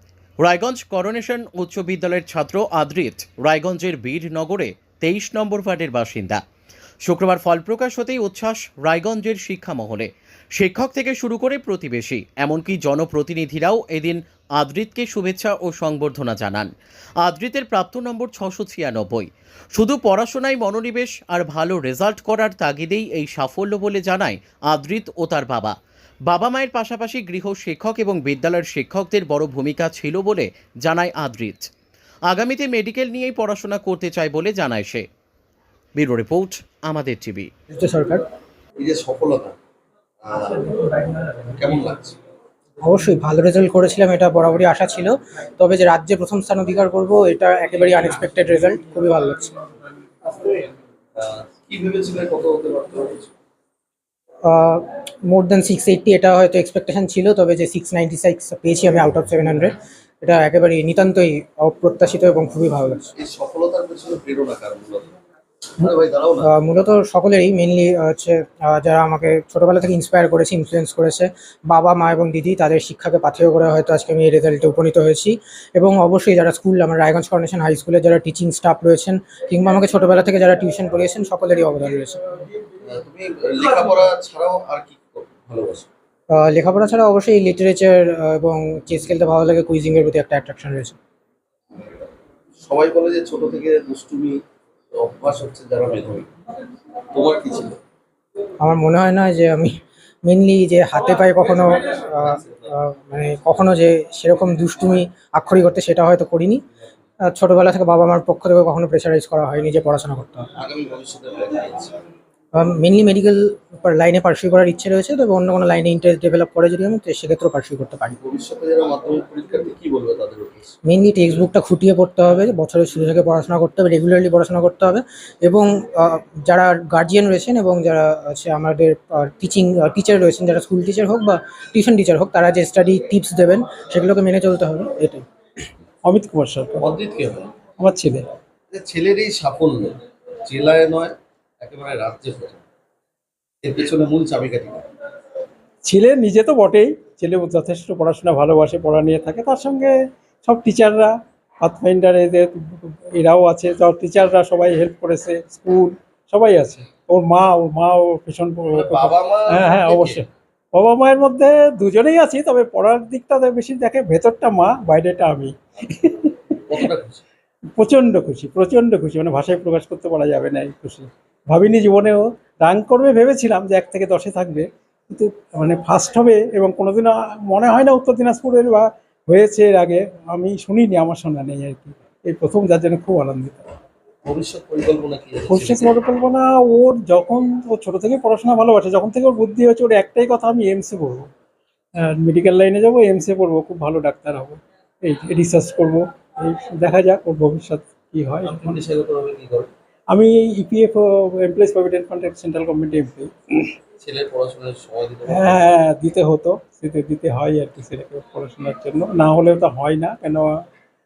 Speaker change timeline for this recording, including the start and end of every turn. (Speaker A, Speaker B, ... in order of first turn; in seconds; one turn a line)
Speaker A: 0.4-6.4
Speaker A: 7.1-16.7
Speaker A: 17.2-25.7
Speaker A: 26.3-31.7
Speaker A: 32.3-35.0
Speaker A: 36.0-37.5
Speaker B: 37.7-38.2
Speaker C: 38.8-39.6
Speaker C: 40.2-42.1
Speaker B: 42.8-49.5
Speaker C: 51.2-53.3
Speaker B: 54.5-63.1
Speaker C: 63.2-65.1
Speaker C: 65.8-66.5
Speaker B: 66.4-82.2
Speaker C: 82.8-85.9
Speaker B: 86.3-91.0
Speaker C: 92.6-94.4
Speaker C: 94.9-96.3
Speaker C: 97.1-97.8
Speaker B: 98.6-99.7
Speaker B: 100.2-106.6
Speaker B: 107.2-110.5
Speaker C: 110.6-111.9
Speaker B: 112.5-118.2
Speaker C: 118.2-120.7
Speaker B: 120.8-135.2
Speaker D: 136.0-136.8
Speaker C: 136.8-137.7
Speaker D: 137.8-138.3
Speaker C: 138.7-142.6
Speaker C: 143.6-144.8
Speaker D: 145.8-166.3
Speaker C: 158.7-160.2
Speaker C: 166.5-167.2
Speaker D: 167.8-183.7
Speaker C: 184.2-186.0
Speaker D: 185.5-191.3
Speaker D: 192.0-198.5
Speaker C: 198.4-199.7
Speaker D: 200.1-203.7
Speaker C: 204.0-205.8
Speaker D: 205.3-210.5